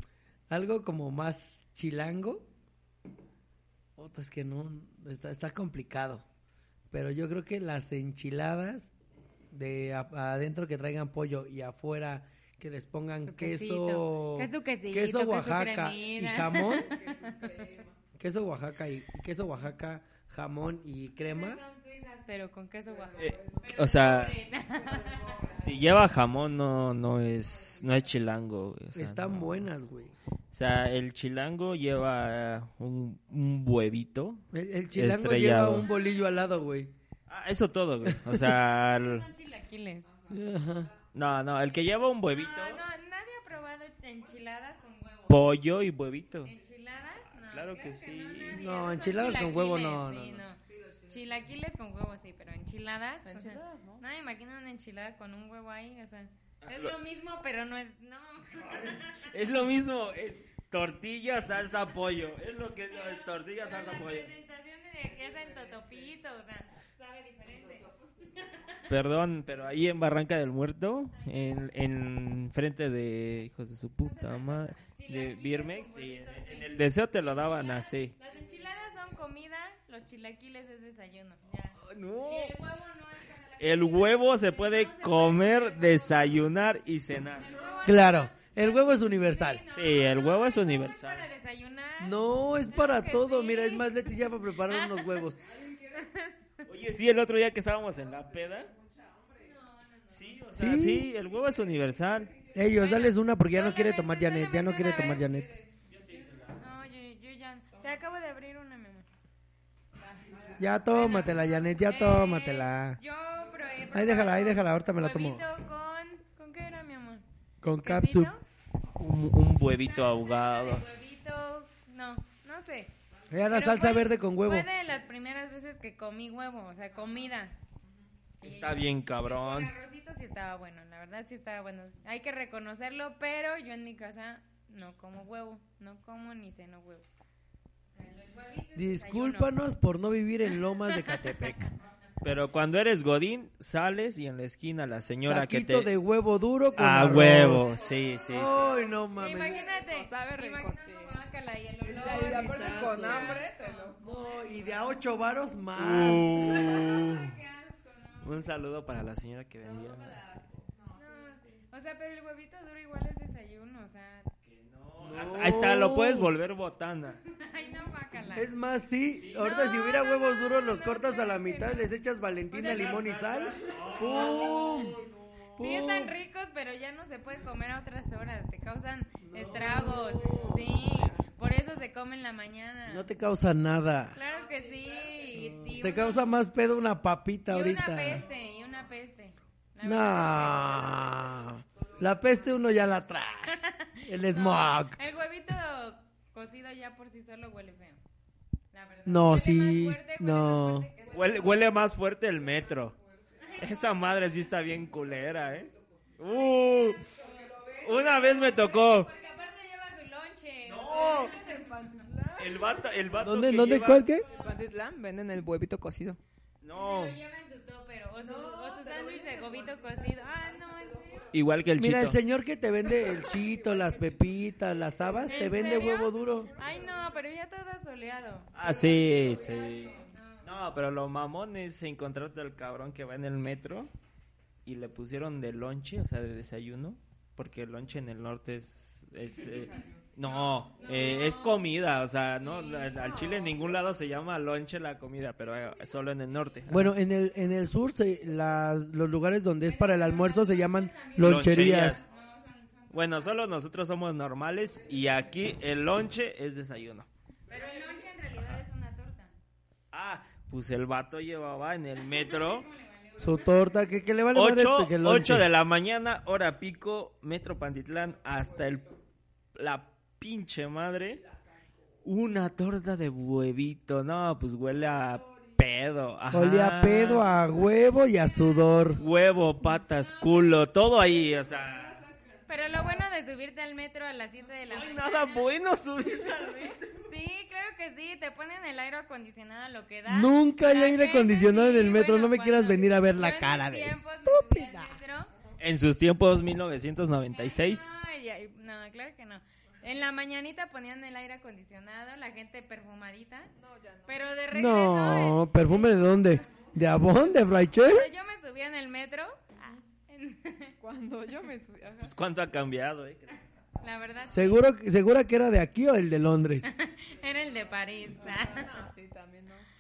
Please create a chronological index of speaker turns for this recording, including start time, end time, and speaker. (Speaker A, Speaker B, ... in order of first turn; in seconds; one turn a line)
Speaker A: 0.5-2.5
Speaker A: 4.0-6.2
Speaker A: 6.9-8.9
Speaker A: 9.5-16.9
Speaker B: 13.3-17.7
Speaker C: 16.0-18.0
Speaker A: 18.2-21.6
Speaker B: 21.2-25.6
Speaker C: 22.9-26.0
Speaker D: 23.2-24.4
Speaker D: 25.6-29.7
Speaker C: 27.4-28.2
Speaker A: 28.9-30.1
Speaker D: 30.5-35.9
Speaker A: 34.5-36.9
Speaker D: 37.3-39.3
Speaker B: 38.9-40.1
Speaker C: 40.0-41.0
Speaker A: 40.3-40.9
Speaker D: 41.1-42.8
Speaker B: 42.3-45.4
Speaker D: 45.3-46.5
Speaker B: 46.4-50.6
Speaker D: 47.5-48.6
Speaker A: 48.5-50.4
Speaker C: 50.6-51.5
Speaker B: 51.1-59.6
Speaker C: 53.2-54.0
Speaker D: 56.6-57.0
Speaker D: 58.6-64.3
Speaker B: 62.9-68.9
Speaker C: 65.0-66.2
Speaker C: 67.5-68.3
Speaker D: 68.9-78.1
Speaker B: 71.2-71.7
Speaker B: 74.0-86.7
Speaker C: 78.2-79.2
Speaker D: 81.8-82.5
Speaker D: 83.6-87.5
Speaker B: 87.4-95.3
Speaker C: 87.5-87.8
Speaker A: 87.8-89.6
Speaker D: 89.7-91.3
Speaker A: 92.0-95.4
Speaker C: 95.4-96.1
Speaker B: 96.0-96.3
Speaker D: 96.7-98.7
Speaker C: 98.0-99.6
Speaker B: 99.4-100.5
Speaker D: 100.1-102.3
Speaker A: 100.5-101.1
Speaker C: 101.2-103.0
Speaker A: 102.5-105.5
Speaker B: 102.7-105.3
Speaker C: 104.6-106.4
Speaker D: 105.9-106.6
Speaker B: 106.6-109.1
Speaker B: 110.0-117.2
Speaker C: 110.3-111.1
Speaker A: 110.6-113.0
Speaker C: 113.4-113.9
Speaker A: 113.9-115.4
Speaker A: 117.6-118.3
Speaker B: 117.8-118.4
Speaker D: 119.0-120.9
Speaker B: 119.8-122.9
Speaker A: 123.3-124.7
Speaker B: 123.5-127.6
Speaker C: 126.9-127.3
Speaker C: 127.8-128.1
Speaker B: 128.4-137.1
Speaker D: 128.4-129.7
Speaker B: 137.9-139.5
Speaker A: 138.8-141.7
Speaker B: 140.8-141.5
Speaker D: 142.2-145.9
Speaker A: 145.3-147.7
Speaker D: 146.8-148.8
Speaker C: 147.5-151.1
Speaker A: 148.3-149.7
Speaker B: 149.2-154.1
Speaker A: 151.8-153.4
Speaker C: 151.9-154.8
Speaker A: 154.0-156.8
Speaker D: 155.8-157.4
Speaker B: 156.3-158.4
Speaker D: 158.2-160.2
Speaker C: 159.6-161.6
Speaker B: 160.9-164.3
Speaker D: 164.4-167.2
Speaker A: 165.0-166.3
Speaker B: 167.2-168.5
Speaker A: 168.3-175.0
Speaker B: 169.3-171.9
Speaker D: 172.5-175.7
Speaker C: 173.7-175.1
Speaker A: 175.6-176.2
Speaker B: 175.6-183.1
Speaker A: 179.2-180.5
Speaker C: 179.4-181.3
Speaker A: 182.9-184.2
Speaker B: 184.1-186.3
Speaker C: 184.2-185.8
Speaker A: 185.3-188.2
Speaker B: 187.5-191.1
Speaker A: 189.8-195.0
Speaker C: 190.3-192.9
Speaker B: 193.5-198.0
Speaker B: 198.7-201.6
Speaker A: 199.1-200.9
Speaker C: 201.0-209.4
Speaker D: 201.1-202.9
Speaker B: 203.4-203.8
Speaker D: 203.6-207.0
Speaker B: 206.3-211.8
Speaker D: 207.8-209.1
Speaker D: 210.7-211.3
Speaker C: 210.8-212.9
Speaker D: 212.4-214.1
Speaker A: 213.2-214.3
Speaker B: 214.2-214.6
Speaker C: 214.3-216.2
Speaker D: 216.6-217.2
Speaker B: 216.7-221.3
Speaker C: 218.2-221.4
Speaker D: 221.3-222.2
Speaker A: 221.8-226.5
Speaker C: 223.0-224.3
Speaker C: 224.9-227.2
Speaker B: 225.3-230.5
Speaker D: 228.5-233.9
Speaker C: 228.6-230.2
Speaker D: 234.7-246.9
Speaker C: 239.3-240.1
Speaker B: 240.2-241.7
Speaker C: 240.8-241.1
Speaker B: 242.4-243.7
Speaker A: 246.7-252.0
Speaker B: 249.6-253.3
Speaker D: 251.2-252.0
Speaker D: 252.9-257.1
Speaker C: 257.5-258.1
Speaker B: 257.5-259.4
Speaker D: 259.9-262.7
Speaker B: 262.1-263.6
Speaker A: 263.2-265.5
Speaker D: 264.3-268.9
Speaker C: 268.3-269.0
Speaker D: 269.6-271.2
Speaker C: 271.1-271.9
Speaker D: 272.1-277.3
Speaker C: 274.8-275.5
Speaker A: 276.3-279.0
Speaker B: 278.0-279.2
Speaker D: 279.0-282.0
Speaker B: 279.8-280.5
Speaker C: 281.0-283.1
Speaker B: 282.5-285.5
Speaker D: 284.7-287.0
Speaker B: 287.1-295.3
Speaker A: 290.1-295.0
Speaker D: 295.6-297.9
Speaker B: 297.3-303.5
Speaker C: 303.6-304.4
Speaker B: 304.1-306.4
Speaker A: 304.5-308.1
Speaker B: 307.8-310.8
Speaker C: 310.8-312.1
Speaker D: 312.0-313.4
Speaker B: 313.8-314.6
Speaker A: 314.3-316.7
Speaker B: 316.6-318.9
Speaker C: 317.2-319.7